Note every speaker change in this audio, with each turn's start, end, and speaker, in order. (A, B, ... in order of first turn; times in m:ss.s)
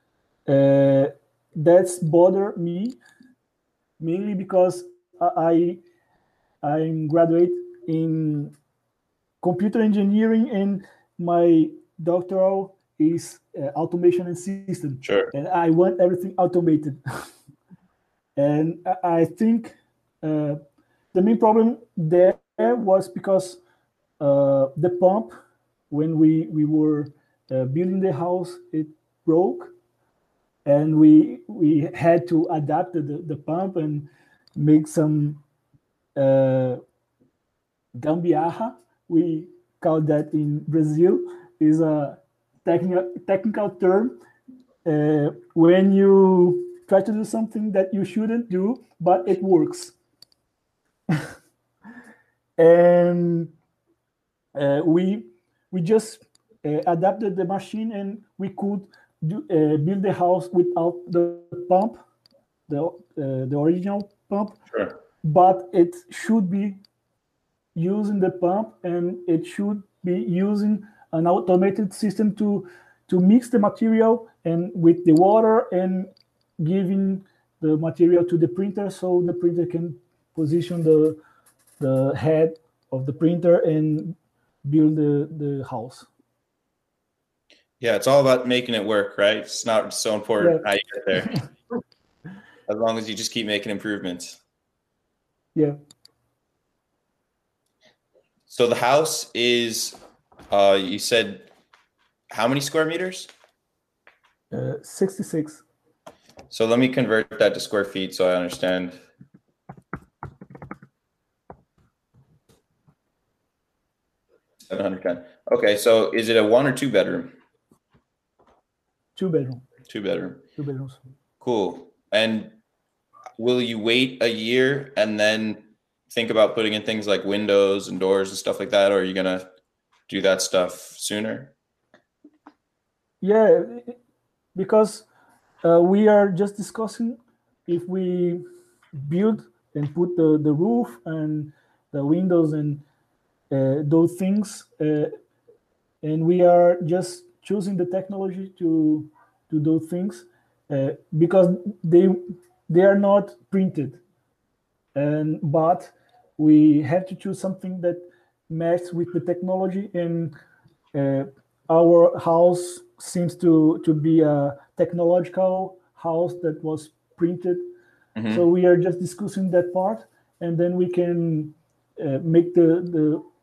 0:00.5-0:03.0 A
0:04.0-0:05.8 A
0:06.6-0:08.5 A
0:09.4-0:17.3 A
0:15.0-0:15.3 B
0:18.4-0:20.6 A
0:21.1-0:23.6 A
0:24.2-0:25.3 A
0:25.9-0:29.7 A
0:30.6-0:35.4 A
0:36.2-0:36.8 A
0:38.0-0:44.2 A
0:44.8-0:50.0 A
0:52.6-0:53.5 A
0:54.6-1:02.0 A
1:02.7-1:04.6 A
1:04.7-1:05.0 B
1:05.2-1:06.8 A
1:07.8-1:21.2 A
1:21.8-1:26.1 A
1:27.8-1:31.4 B
1:32.7-1:34.4 B
1:38.5-1:40.0 B
1:40.5-1:41.5 B
1:42.3-1:43.3 B
1:44.5-1:45.6 A
1:46.5-1:49.0 B
1:54.7-1:57.3 B
1:59.2-1:59.6 A
1:59.9-2:00.4 B
2:00.6-2:01.0 A
2:01.4-2:02.6 B
2:03.4-2:09.5 B
2:10.1-2:11.5 B
2:13.2-2:14.0 A
2:14.6-2:15.1 A
2:15.6-2:18.4 A
2:19.0-2:22.8 A
2:23.5-2:25.1 A
2:26.0-2:34.0 A
2:35.0-2:40.3 A
2:40.9-2:47.6 A
2:48.2-2:48.4 B
2:48.3-2:53.2 A